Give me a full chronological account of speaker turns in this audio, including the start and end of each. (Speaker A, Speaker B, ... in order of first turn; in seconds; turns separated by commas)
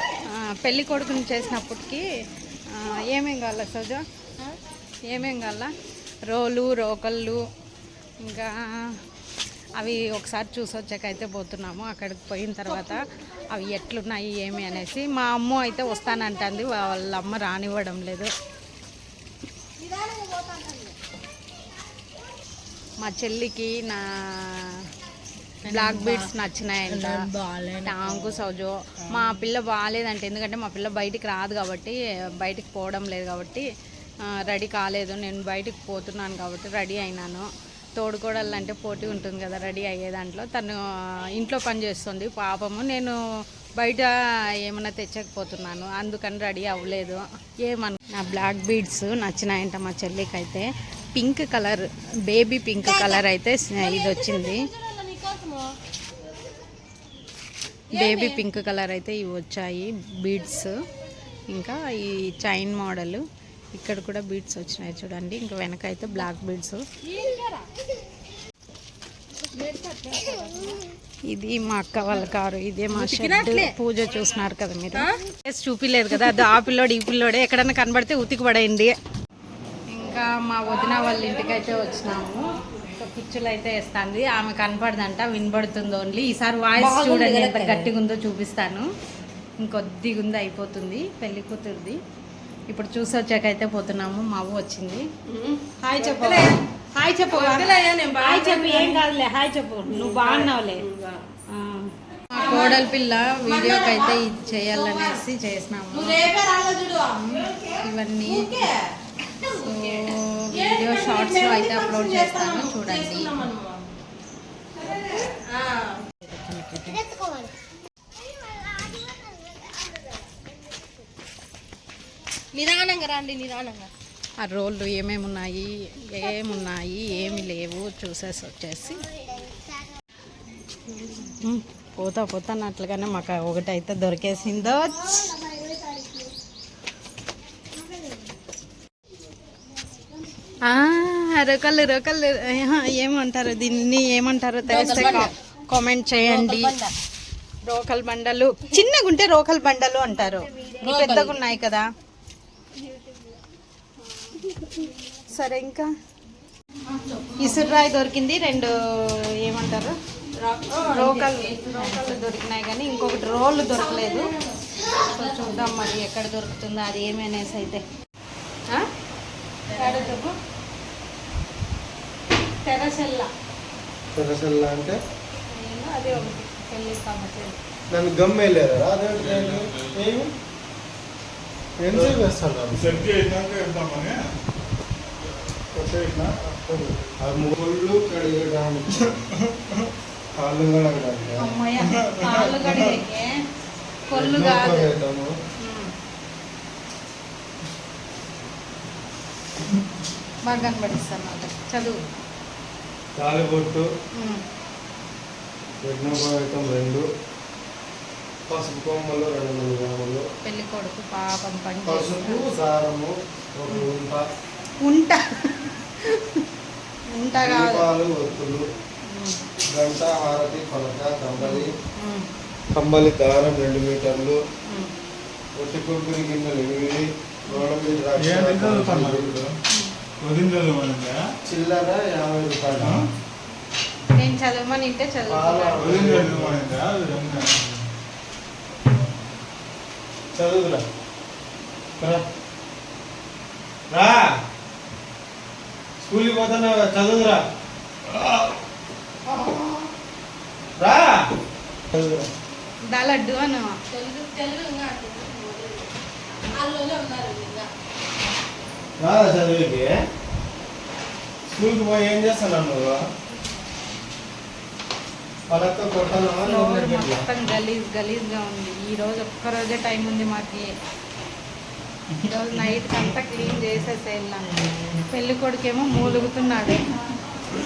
Speaker A: 0.3-2.0, Speaker A: 2.7-4.0, Speaker A: 5.0-5.7, Speaker A: 6.3-7.4, Speaker A: 8.2-9.0, Speaker A: 9.8-18.3, Speaker B: 19.9-20.9, Speaker A: 23.0-24.9, Speaker B: 25.7-26.3, Speaker A: 25.7-27.2, Speaker B: 26.9-28.4, Speaker A: 27.8-33.7, Speaker A: 34.2-43.2, Speaker A: 43.8-44.1, Speaker A: 44.6-54.7, Speaker B: 54.1-55.8, Speaker A: 57.9-60.7, Speaker B: 58.0-58.4, Speaker A: 61.5-66.8, Speaker B: 67.0-67.7, Speaker B: 69.5-70.8, Speaker A: 71.3-78.9, Speaker B: 72.9-73.7, Speaker A: 79.9-88.9, Speaker B: 80.8-82.4, Speaker B: 86.8-87.9, Speaker A: 89.6-92.0, Speaker A: 92.7-95.1, Speaker B: 95.3-96.6, Speaker A: 95.8-100.9, Speaker B: 97.3-99.2, Speaker B: 99.8-101.2, Speaker A: 101.5-106.2, Speaker B: 102.3-102.8, Speaker B: 103.5-104.2, Speaker B: 104.7-105.2, Speaker B: 105.9-107.7, Speaker A: 107.1-108.5, Speaker B: 108.3-108.9, Speaker A: 109.4-113.4, Speaker B: 109.5-113.8, Speaker B: 114.8-116.0, Speaker A: 116.2-117.2, Speaker B: 122.5-123.9, Speaker A: 124.4-129.1, Speaker A: 131.2-135.4, Speaker A: 140.6-146.7, Speaker B: 144.7-145.3, Speaker B: 146.2-146.9, Speaker A: 147.7-151.9, Speaker B: 150.8-151.3, Speaker A: 155.3-155.9, Speaker B: 156.9-157.7, Speaker A: 157.4-160.0, Speaker B: 160.4-162.2, Speaker A: 160.8-164.3, Speaker B: 163.7-165.6, Speaker A: 164.9-167.8, Speaker A: 169.7-170.4, Speaker B: 169.8-170.1, Speaker A: 172.6-173.3, Speaker C: 174.2-175.0, Speaker A: 175.5-177.6, Speaker C: 177.9-180.3, Speaker D: 179.2-180.0, Speaker C: 181.8-183.1, Speaker D: 181.9-182.2, Speaker D: 182.7-184.2, Speaker D: 185.7-186.3, Speaker C: 186.5-189.2, Speaker D: 189.4-189.8, Speaker C: 190.3-191.6, Speaker A: 191.4-193.4, Speaker D: 191.9-193.0, Speaker A: 194.1-194.9, Speaker C: 194.1-195.3, Speaker A: 195.6-195.9, Speaker A: 200.4-202.0, Speaker C: 203.2-203.9, Speaker A: 204.2-204.4, Speaker C: 205.8-207.1, Speaker C: 208.5-210.2, Speaker A: 210.4-212.5, Speaker C: 211.9-214.2, Speaker A: 214.8-216.4, Speaker A: 217.1-217.9, Speaker C: 217.3-218.6, Speaker A: 219.1-219.4, Speaker C: 219.7-221.7, Speaker A: 221.4-222.3, Speaker C: 222.7-224.4, Speaker A: 224.7-224.9, Speaker C: 225.6-229.4, Speaker D: 228.2-229.5, Speaker D: 230.2-231.2, Speaker C: 231.5-233.0, Speaker A: 234.1-235.9, Speaker C: 235.3-236.6, Speaker D: 235.8-237.8, Speaker C: 240.3-240.8, Speaker C: 242.0-242.2, Speaker C: 243.9-244.3, Speaker C: 246.0-247.4, Speaker C: 250.8-251.2, Speaker C: 251.9-252.3, Speaker A: 252.9-253.8, Speaker B: 253.9-255.9, Speaker B: 256.5-257.7, Speaker C: 259.0-259.9, Speaker C: 261.5-263.0, Speaker C: 265.5-267.3, Speaker A: 266.4-270.7, Speaker A: 272.2-276.9